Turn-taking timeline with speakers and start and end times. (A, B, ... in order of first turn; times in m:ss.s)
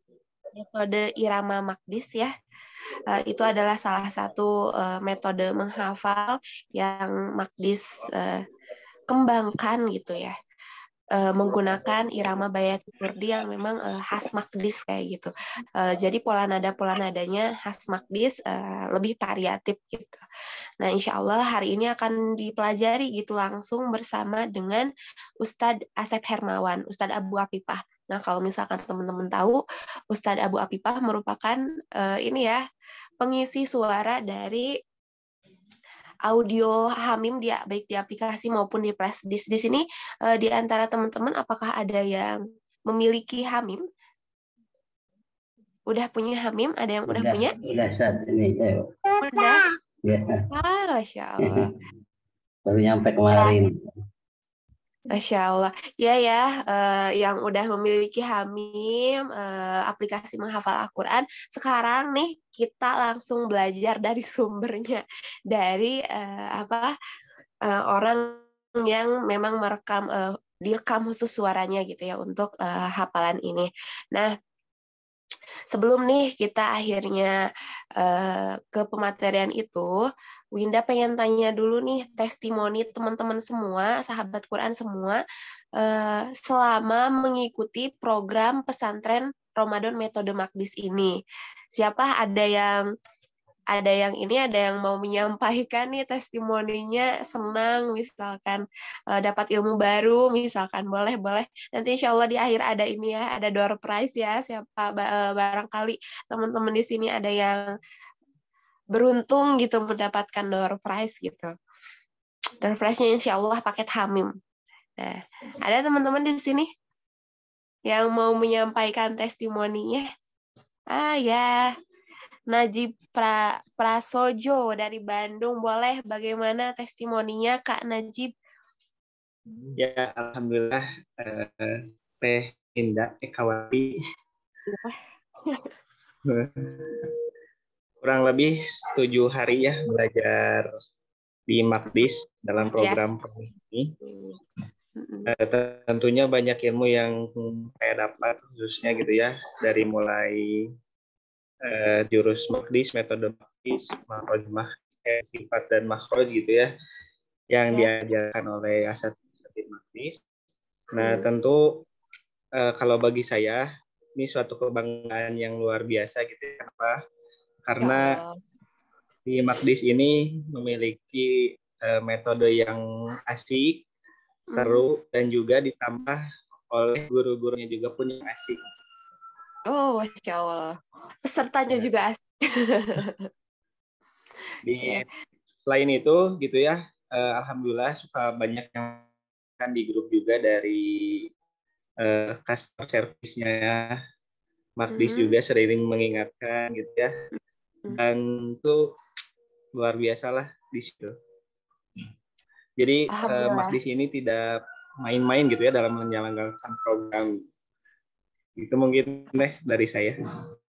0:00.5-0:02.3 A
0:03.1-0:08.4 A
0:09.1-0:10.3 A
0:11.2-0:20.2 A
0:20.8-0:24.9 A
0:25.4-0:29.6 A
0:30.1-0:32.6 A
0:33.2-0:34.7 A
0:36.3-0:42.3 A
0:42.9-0:43.8 A
0:45.9-0:47.6 A
0:47.1-0:49.5 B
0:49.2-0:49.6 A
0:50.0-0:50.4 B
0:50.5-0:51.6 A
0:51.4-0:51.8 B
0:52.7-0:53.9 B
0:55.1-1:06.9 A
1:07.7-1:14.3 A
1:15.7-1:17.4 A
1:18.0-1:19.9 A
1:20.6-1:25.2 A
1:25.8-1:31.1 A
1:31.7-1:32.8 A
1:33.7-1:47.7 A
1:48.9-1:51.5 A
1:52.6-1:54.3 A
1:55.0-1:56.7 A
1:57.9-2:00.0 A
2:00.9-2:01.7 A
2:02.5-2:08.3 A
2:09.8-2:14.0 C
2:14.7-2:15.0 A
2:16.3-2:17.1 C
2:18.0-2:20.7 C
2:21.5-2:24.0 C
2:22.7-2:23.0 A
2:25.0-2:25.3 A
2:25.3-2:30.7 C
2:31.7-2:36.7 C
2:37.5-2:40.2 C
2:40.9-2:41.8 C
2:41.0-2:41.2 A
2:42.6-2:43.6 C
2:44.2-2:47.0 C
2:47.6-2:48.2 C
2:47.8-2:48.4 A
2:49.3-2:53.8 C
2:54.5-2:58.6 C
2:54.5-2:54.8 A
2:59.7-3:03.1 A
3:04.6-3:05.0 C
3:05.6-3:09.1 C
3:09.6-3:11.3 C
3:12.0-3:14.0 C
3:14.8-3:17.2 C
3:14.9-3:15.3 A
3:17.9-3:18.8 C
3:19.8-3:21.2 C
3:22.8-3:27.4 C
3:23.1-3:23.8 A
3:28.6-3:30.2 C